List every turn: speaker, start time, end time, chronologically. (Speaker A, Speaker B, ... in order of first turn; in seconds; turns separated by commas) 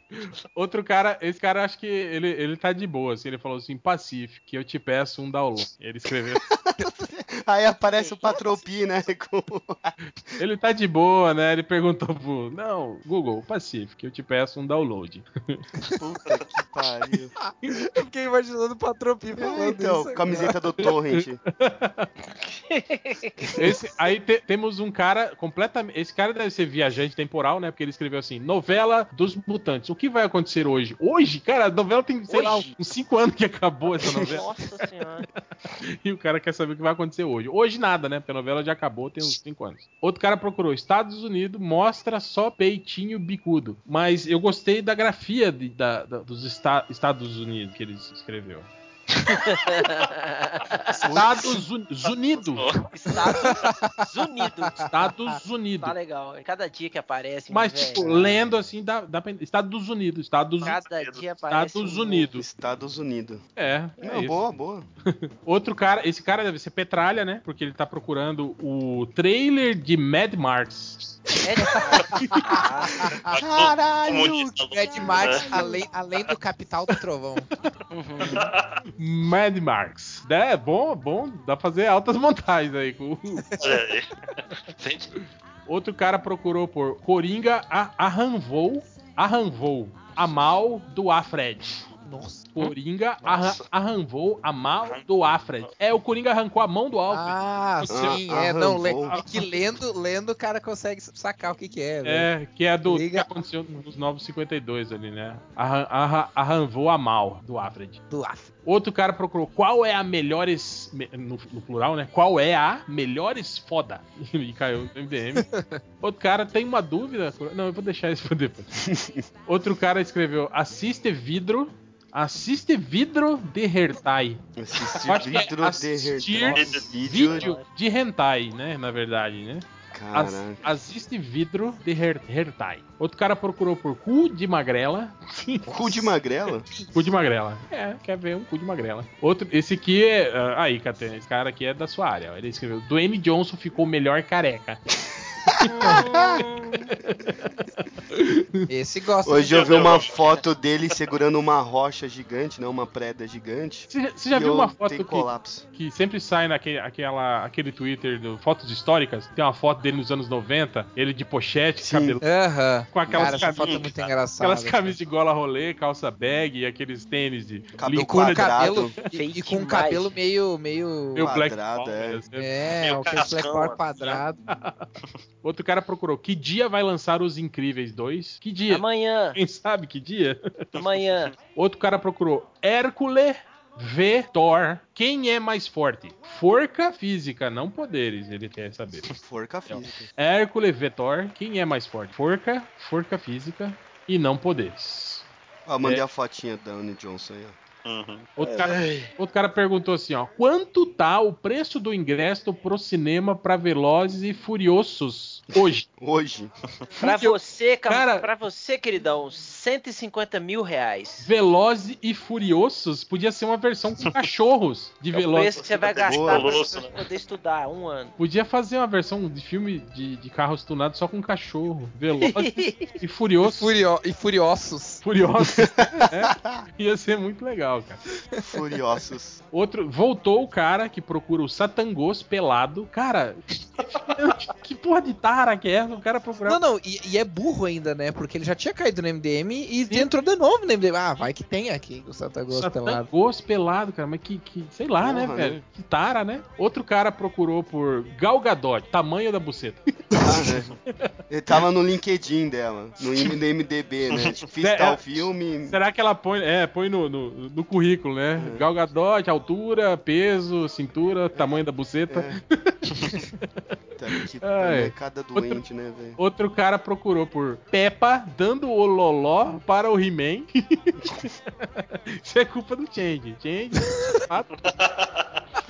Speaker A: 0.1-6.4, Speaker B: 6.5-10.4, Speaker C: 8.0-8.3, Speaker A: 10.4-15.6, Speaker B: 16.0-17.4, Speaker D: 17.4-20.5, Speaker B: 19.4-21.4, Speaker A: 21.5-22.1, Speaker C: 22.7-23.5, Speaker A: 23.6-34.5, Speaker C: 32.3-32.7, Speaker C: 34.2-35.3, Speaker A: 36.0-48.7, Speaker C: 49.3-51.0, Speaker B: 50.9-51.6, Speaker A: 51.1-52.7, Speaker E: 52.4-52.8, Speaker C: 52.9-54.9, Speaker D: 53.4-54.0, Speaker D: 54.7-55.4, Speaker A: 54.9-56.0, Speaker C: 55.8-58.3, Speaker A: 57.5-60.8, Speaker C: 60.6-62.2, Speaker E: 60.9-61.2, Speaker A: 61.5-62.4, Speaker B: 62.0-63.5, Speaker A: 63.6-64.4, Speaker B: 64.0-64.9, Speaker A: 65.0-71.2, Speaker C: 71.4-73.1, Speaker B: 73.0-75.8, Speaker E: 73.3-75.5, Speaker D: 74.7-77.5, Speaker C: 77.9-78.5, Speaker E: 78.3-78.8, Speaker A: 79.0-83.5, Speaker E: 83.6-85.1, Speaker A: 85.7-91.7, Speaker D: 92.0-92.6, Speaker A: 92.5-98.2, Speaker E: 93.3-93.6, Speaker D: 97.1-102.3, Speaker B: 97.9-99.2, Speaker A: 102.0-108.0, Speaker D: 102.8-103.3, Speaker D: 108.1-108.5, Speaker A: 108.6-115.5, Speaker D: 115.4-115.8, Speaker A: 116.0-118.7, Speaker B: 118.8-119.3, Speaker A: 119.5-124.4, Speaker B: 124.6-127.5, Speaker A: 125.0-136.1, Speaker E: 125.0-125.5, Speaker E: 126.5-127.4, Speaker C: 127.2-127.6, Speaker B: 129.9-130.6, Speaker B: 135.7-136.7, Speaker A: 136.9-144.8, Speaker B: 145.5-146.4, Speaker C: 145.6-146.9, Speaker A: 147.0-147.4, Speaker A: 148.1-148.7, Speaker D: 148.7-149.8, Speaker B: 149.2-155.7, Speaker E: 149.5-150.4, Speaker A: 153.9-162.2, Speaker B: 161.8-162.2, Speaker D: 162.2-165.0, Speaker A: 162.9-169.1, Speaker B: 163.1-163.4, Speaker E: 163.6-164.1, Speaker B: 167.8-168.9, Speaker D: 168.1-171.4, Speaker C: 169.1-170.1, Speaker A: 171.2-172.5, Speaker B: 171.2-172.2, Speaker D: 172.4-174.4, Speaker E: 172.8-174.1, Speaker A: 174.5-174.8, Speaker A: 175.4-180.4, Speaker C: 178.7-179.4, Speaker C: 180.7-181.3, Speaker E: 180.7-181.4, Speaker A: 181.5-189.2, Speaker B: 189.2-190.1, Speaker A: 189.7-195.2, Speaker B: 195.7-197.6, Speaker E: 197.8-198.7, Speaker A: 198.4-205.9, Speaker B: 206.0-206.5, Speaker A: 207.0-207.4, Speaker C: 207.0-211.3, Speaker A: 207.9-208.3, Speaker A: 211.2-215.6, Speaker C: 215.1-218.1, Speaker E: 215.7-217.0, Speaker B: 216.1-216.5, Speaker A: 218.2-223.7, Speaker C: 222.2-222.9, Speaker D: 223.4-225.0, Speaker A: 225.0-228.0, Speaker B: 225.4-226.6, Speaker B: 228.4-229.4, Speaker A: 229.5-236.6, Speaker D: 236.4-243.1, Speaker A: 242.5-251.1, Speaker B: 245.0-245.6, Speaker B: 250.2-250.8, Speaker B: 251.3-255.8, Speaker A: 254.6-265.6, Speaker B: 258.4-258.7, Speaker B: 262.1-262.4, Speaker B: 264.0-266.2, Speaker A: 266.2-274.6, Speaker E: 274.7-275.2